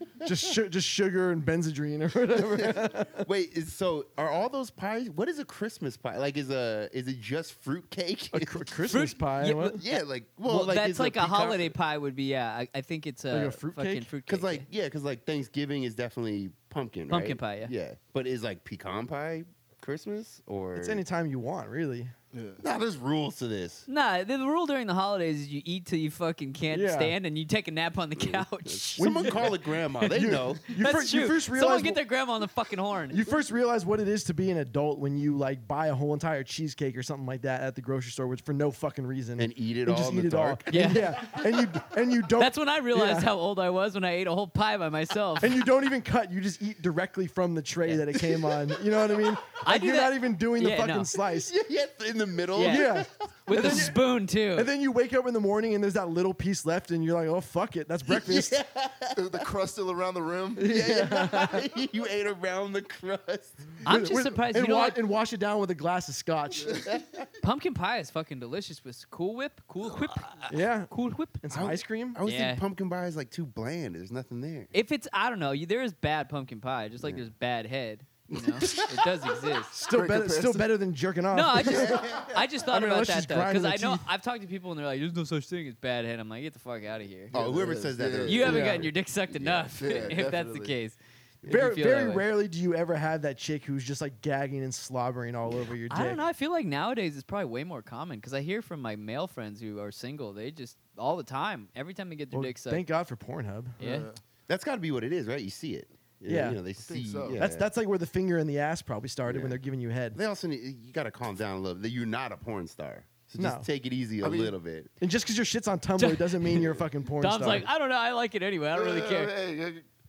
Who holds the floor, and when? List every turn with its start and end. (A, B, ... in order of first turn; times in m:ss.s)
0:00.2-0:03.3 A
0:02.4-0:08.7 B
0:08.3-0:09.8 A
0:08.9-0:09.8 C
0:09.8-0:11.7 B
0:10.4-0:14.6 C
0:13.3-0:14.1 A
0:14.3-0:21.0 B
0:17.1-0:17.7 C
0:20.7-0:22.1 A
0:22.3-0:22.6 D
0:22.6-0:23.9 B
0:23.9-0:29.5 C
0:26.7-0:27.1 A
0:28.2-0:30.7 B
0:29.0-0:29.5 A
0:30.0-0:32.0 A
0:30.7-0:33.2 C
0:33.1-0:43.3 A
0:39.4-0:41.4 B
0:40.7-0:41.2 C
0:42.4-0:45.6 C
0:45.4-0:51.5 A
0:49.6-0:51.1 C
0:51.2-0:53.9 B
0:52.5-0:54.7 C
0:52.6-0:58.6 A
0:58.0-0:59.5 B
0:59.2-1:00.8 D
1:00.6-1:01.6 A
1:00.6-1:03.8 B
1:03.8-1:05.0 C
1:03.8-1:06.8 A
1:06.6-1:06.9 D
1:06.7-1:07.2 B
1:07.4-1:11.4 C
1:10.5-1:12.2 A
1:11.5-1:14.7 B
1:12.2-1:12.6 C
1:14.7-1:19.8 C
1:18.3-1:19.0 B
1:19.7-1:24.1 A
1:19.9-1:20.8 D
1:21.3-1:27.3 C
1:21.6-1:22.4 B
1:27.3-1:30.2 B
1:27.3-1:28.6 D
1:28.2-1:32.3 C
1:28.4-1:28.9 A
1:29.8-1:30.7 D
1:31.4-1:36.2 A
1:35.9-1:42.8 C
1:42.3-1:43.8 A
1:43.8-1:44.1 C
1:43.8-1:44.2 D
1:44.5-1:47.7 B
1:46.2-1:46.6 A
1:46.8-1:47.4 D
1:47.4-1:50.2 A
1:49.2-1:49.6 B
1:50.1-1:54.9 B
1:53.4-1:53.6 A
1:54.2-1:54.5 D
1:55.0-1:57.7 A
1:56.0-1:56.7 C
1:57.2-1:59.3 C
1:58.7-1:59.8 D